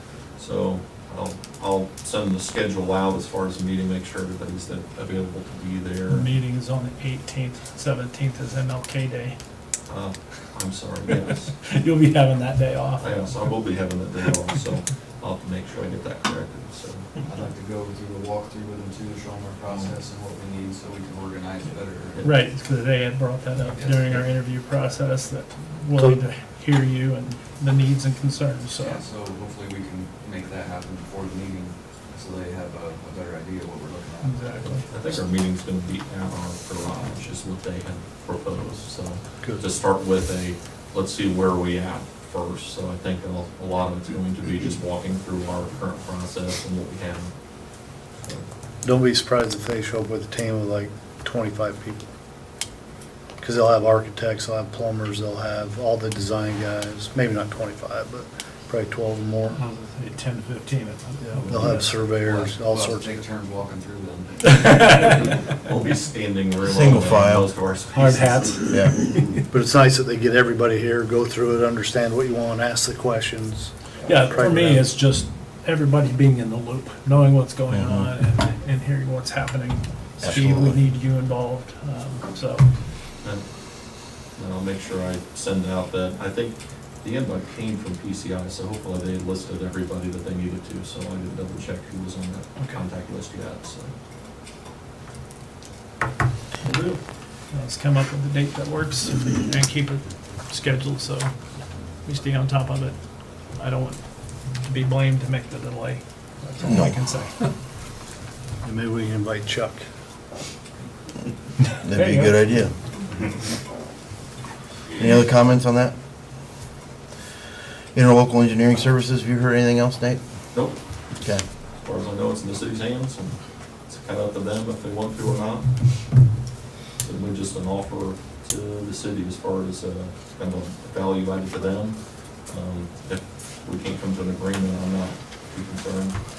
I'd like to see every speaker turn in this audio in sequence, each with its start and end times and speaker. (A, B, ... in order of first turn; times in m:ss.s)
0:00.3-0:06.3 A
0:06.1-0:09.4 B
0:09.9-0:11.5 A
0:11.7-0:13.6 B
0:13.0-0:17.1 A
0:17.2-0:22.2 C
0:22.2-0:22.4 A
0:22.2-0:29.0 B
0:23.6-0:24.3 C
0:28.7-0:34.6 C
0:34.2-0:35.0 B
0:34.6-0:48.5 A
0:48.8-0:52.1 D
0:53.4-0:59.6 D
0:59.5-1:01.9 B
1:01.5-1:03.1 D
1:02.0-1:05.3 C
1:04.4-1:05.1 B
1:05.0-1:08.6 A
1:06.6-1:07.5 E
1:07.9-1:09.4 B
1:08.7-1:09.0 E
1:09.5-1:13.7 D
1:14.0-1:14.2 C
1:14.0-1:22.7 B
1:14.3-1:14.8 D
1:17.7-1:18.1 E
1:20.2-1:20.8 E
1:23.2-1:33.9 A
1:32.6-1:32.8 B
1:36.6-1:37.0 A
1:37.5-1:47.5 B
1:46.6-1:47.0 E
1:48.6-1:49.8 D
1:51.8-1:52.8 E
1:51.8-1:52.6 B
1:54.9-1:55.9 E
1:57.9-2:00.2 E
2:00.5-2:00.8 A
2:01.1-2:01.4 E
2:01.8-2:06.2 A
2:07.0-2:16.2 A